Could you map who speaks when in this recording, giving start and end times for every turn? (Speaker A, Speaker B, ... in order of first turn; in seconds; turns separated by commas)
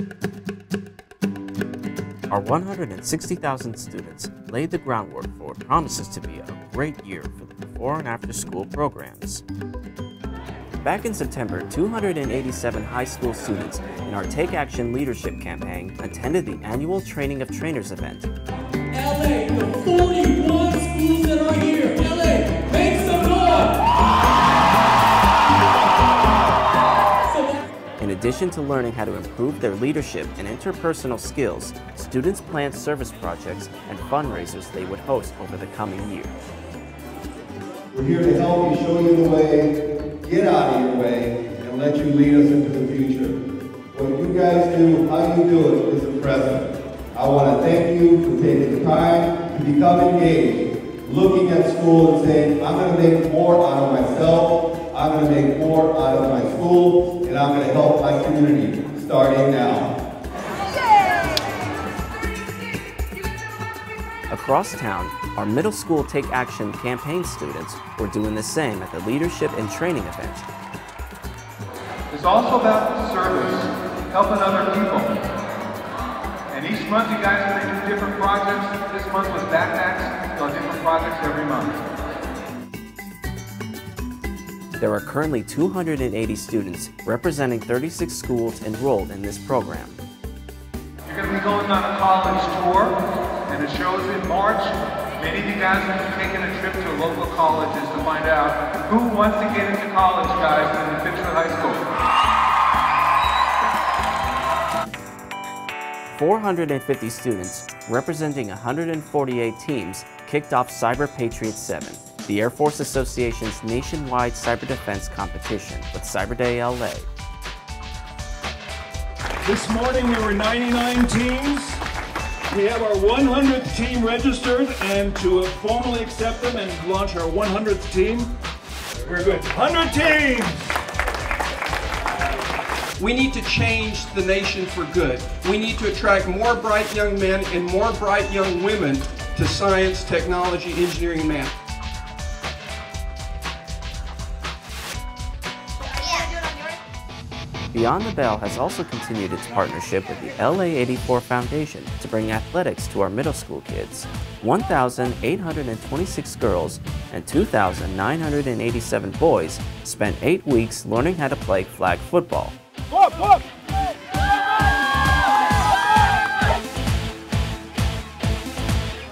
Speaker A: 2.3-9.4, Speaker A: 10.8-18.3, Speaker B: 18.9-23.7, Speaker A: 28.0-36.4, Speaker C: 37.9-43.4, Speaker C: 43.9-59.9, Speaker A: 64.3-70.5, Speaker D: 72.1-75.1, Speaker D: 76.5-81.8, Speaker A: 84.8-90.0, Speaker D: 91.1-93.0, Speaker D: 93.5-101.8, Speaker A: 106.1-117.1, Speaker B: 119.5-121.8, Speaker B: 122.5-128.3, Speaker B: 129.1-130.6, Speaker E: 133.0-141.5, Speaker A: 147.7-162.6